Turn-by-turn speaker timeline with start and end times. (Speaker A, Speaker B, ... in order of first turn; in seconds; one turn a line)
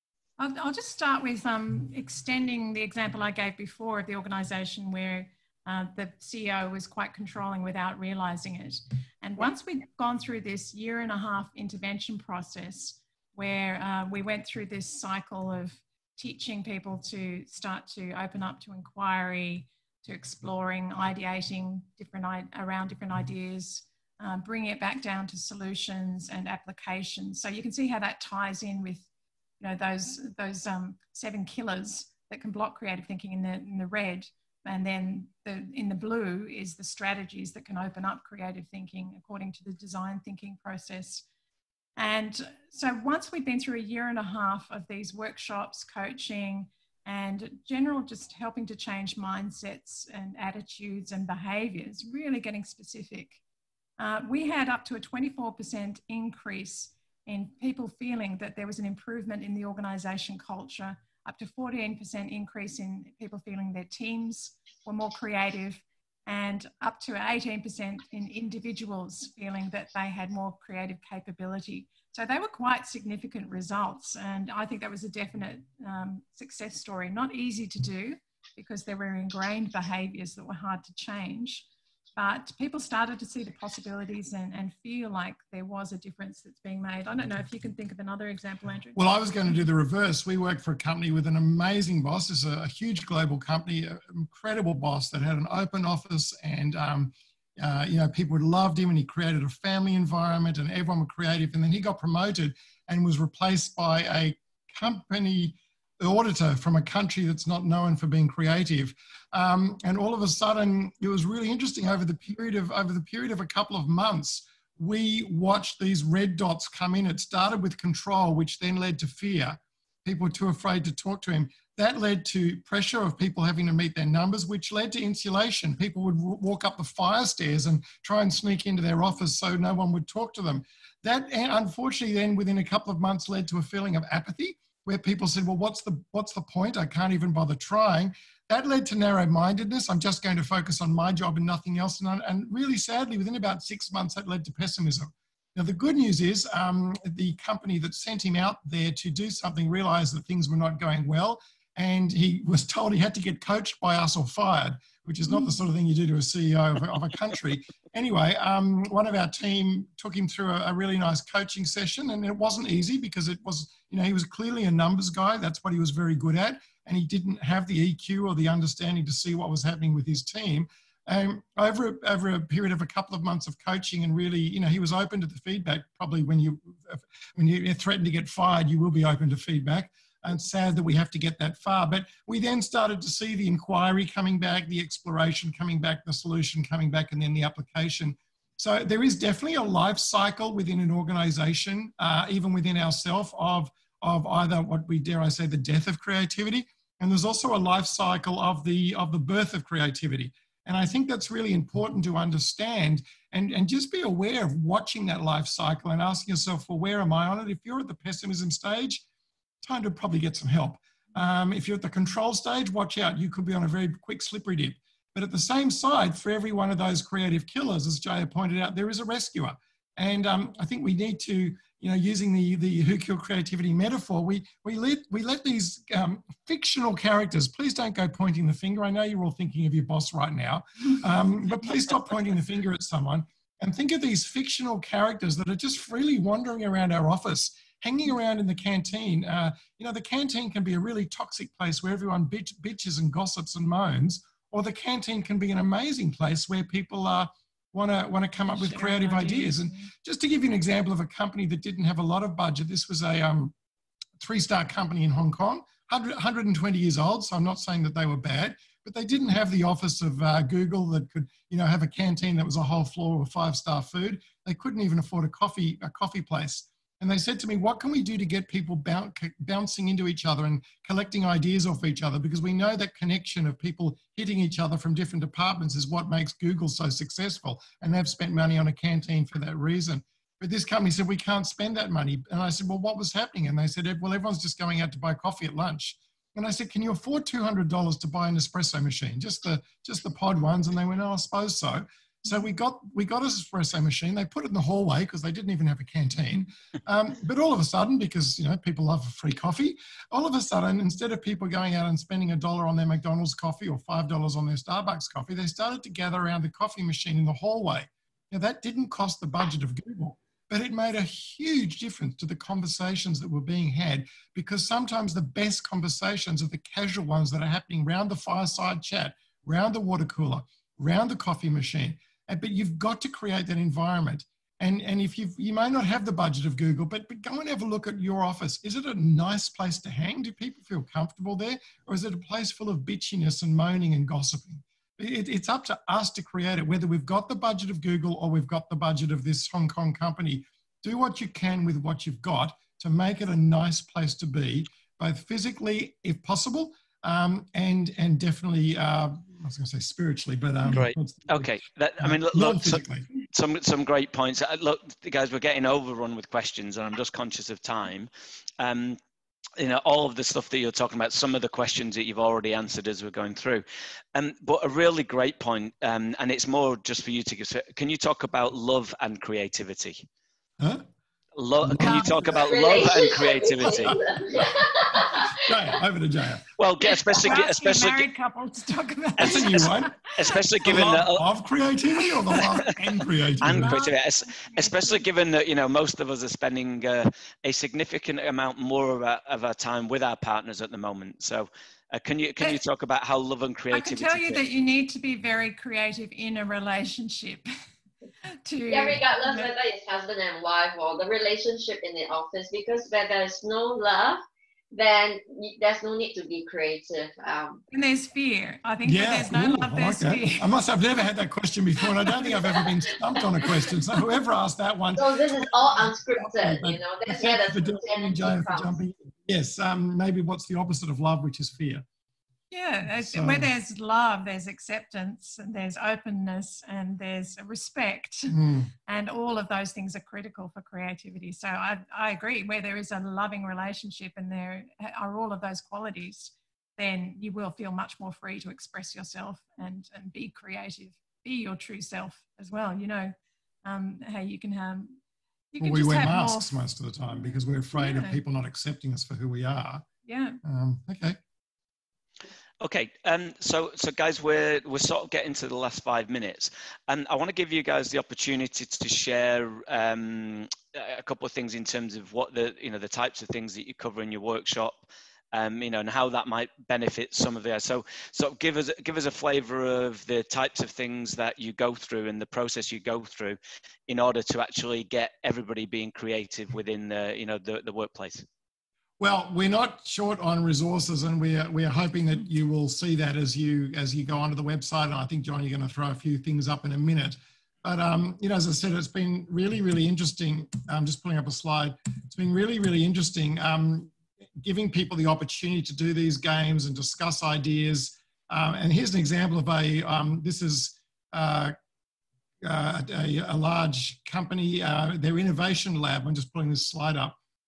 Speaker A: 0.4-29.1
Speaker A: 29.6-41.2
Speaker A: 42.0-53.4
Speaker A: 54.0-89.2
Speaker B: 89.0-209.0
Speaker B: 209.6-253.5
Speaker A: 248.5-249.9
Speaker B: 254.2-353.1
Speaker C: 350.6-359.0
Speaker C: 359.6-370.0
Speaker B: 370.6-370.8
Speaker C: 371.4-374.0
Speaker B: 371.6-372.6
Speaker D: 372.4-375.4
Speaker B: 373.7-376.4
Speaker C: 376.6-378.1
Speaker A: 376.8-380.4
Speaker B: 379.2-379.9
Speaker C: 379.2-381.2
Speaker B: 380.6-383.8
Speaker A: 382.3-382.7
Speaker C: 383.4-394.4
Speaker A: 383.4-385.0
Speaker A: 393.7-397.5
Speaker A: 398.2-399.5
Speaker D: 398.7-404.2
Speaker D: 404.7-407.6
Speaker A: 407.7-410.5
Speaker B: 408.8-421.8
Speaker D: 414.9-418.8
Speaker A: 422.5-445.0
Speaker B: 422.9-423.5
Speaker B: 428.3-428.7
Speaker A: 445.5-446.5
Speaker B: 445.6-449.9
Speaker A: 447.8-448.2
Speaker A: 450.0-450.4
Speaker B: 450.4-451.2
Speaker C: 452.6-478.2
Speaker B: 479.0-501.5
Speaker B: 502.4-507.2